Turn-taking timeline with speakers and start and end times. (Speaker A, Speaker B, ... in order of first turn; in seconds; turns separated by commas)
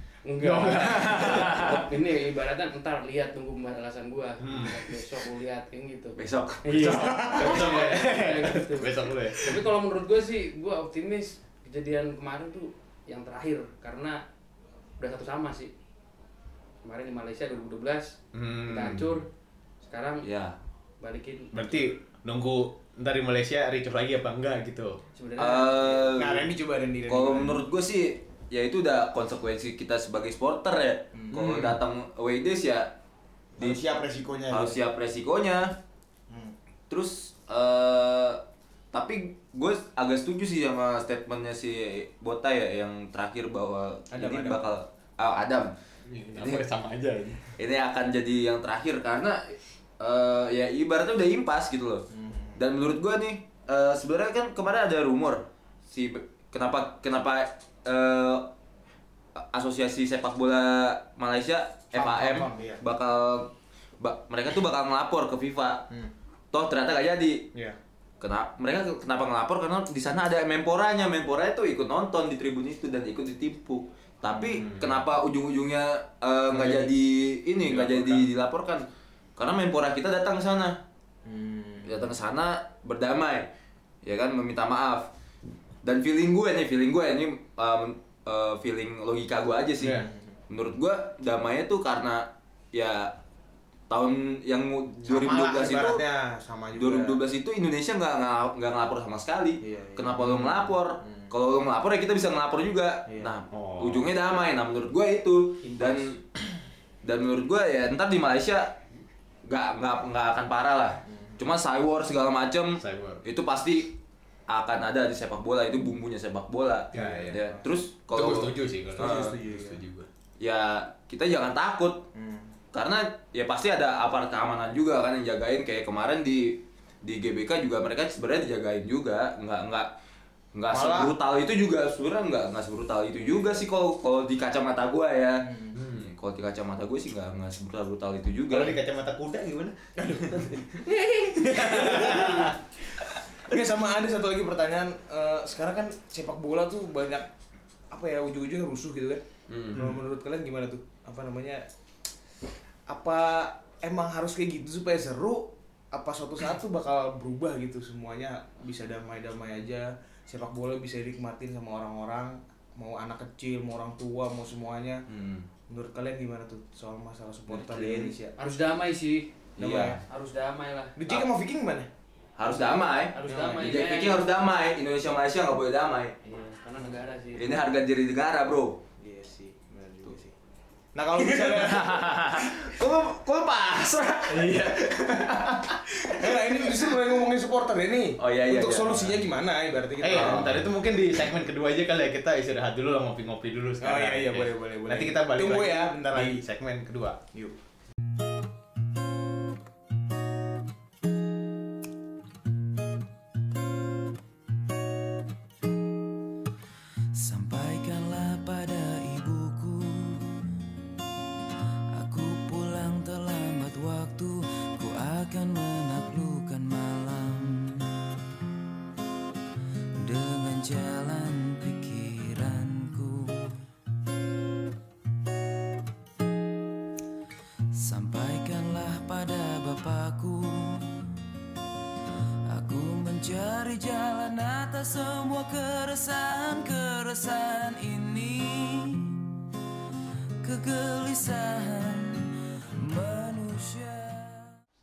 Speaker A: 0.2-14.2, Speaker B: 0.4-1.8, Speaker C: 1.1-1.4, Speaker B: 4.4-4.8, Speaker C: 6.2-7.4, Speaker D: 7.0-7.5, Speaker B: 7.1-9.6, Speaker A: 15.0-15.7, Speaker A: 16.8-19.3, Speaker B: 18.3-19.2, Speaker A: 19.8-20.3, Speaker C: 20.2-20.6, Speaker A: 21.0-21.5, Speaker B: 21.5-25.0, Speaker A: 25.1-26.1, Speaker C: 25.4-26.5, Speaker D: 26.1-27.6, Speaker C: 27.1-32.9, Speaker D: 31.1-31.7, Speaker B: 31.4-31.7, Speaker D: 33.5-34.8, Speaker C: 33.6-33.8, Speaker C: 34.5-35.8, Speaker D: 36.3-36.5, Speaker C: 36.9-45.7, Speaker D: 44.1-44.7, Speaker B: 46.1-47.4, Speaker C: 46.4-46.6, Speaker C: 47.5-58.5, Speaker D: 52.1-52.6, Speaker C: 59.3-65.9, Speaker D: 61.9-62.8, Speaker C: 66.5-67.5, Speaker C: 68.2-78.8, Speaker D: 74.3-74.6, Speaker B: 74.6-75.0, Speaker B: 77.7-78.3, Speaker C: 79.4-80.8, Speaker D: 81.2-82.1, Speaker C: 81.8-83.5, Speaker C: 84.0-85.1, Speaker C: 85.8-93.1, Speaker B: 89.8-90.1, Speaker D: 89.8-90.3, Speaker C: 93.9-96.0, Speaker B: 95.1-95.5, Speaker D: 95.1-97.2, Speaker C: 96.7-106.2, Speaker D: 99.6-100.3, Speaker B: 100.2-100.5, Speaker D: 101.0-101.3, Speaker D: 103.1-103.3, Speaker B: 103.5-104.1, Speaker C: 107.0-108.8, Speaker C: 109.5-119.4, Speaker D: 111.1-111.4, Speaker B: 112.8-113.2, Speaker B: 116.9-117.4, Speaker B: 118.1-120.1, Speaker D: 119.0-119.8, Speaker C: 120.4-122.1, Speaker D: 122.1-122.5, Speaker C: 122.7-129.9, Speaker C: 130.5-138.8, Speaker D: 130.7-131.1, Speaker D: 135.4-135.8, Speaker B: 135.7-136.1, Speaker B: 138.5-140.6, Speaker D: 140.0-142.6, Speaker B: 141.3-142.5, Speaker C: 141.9-142.2, Speaker D: 143.5-147.3, Speaker D: 147.9-151.7, Speaker C: 149.5-149.9, Speaker D: 152.9-165.0, Speaker C: 165.1-165.5, Speaker D: 165.7-168.3, Speaker C: 167.5-168.1, Speaker A: 168.4-169.3, Speaker D: 169.6-170.0, Speaker C: 169.6-170.0, Speaker A: 170.1-170.9, Speaker D: 170.9-171.9, Speaker C: 172.4-176.1, Speaker A: 172.9-174.3, Speaker D: 173.3-173.8, Speaker A: 176.2-177.5, Speaker C: 177.3-178.8, Speaker D: 179.0-180.3, Speaker D: 180.9-182.6, Speaker C: 181.2-186.2, Speaker D: 184.3-184.8, Speaker D: 186.0-190.7, Speaker C: 188.2-189.2, Speaker B: 190.0-197.2, Speaker C: 190.1-190.6, Speaker D: 193.8-196.4, Speaker E: 207.1-210.4, Speaker E: 211.9-217.9, Speaker E: 220.0-223.6, Speaker E: 227.7-230.9, Speaker E: 232.5-239.3, Speaker E: 240.4-244.6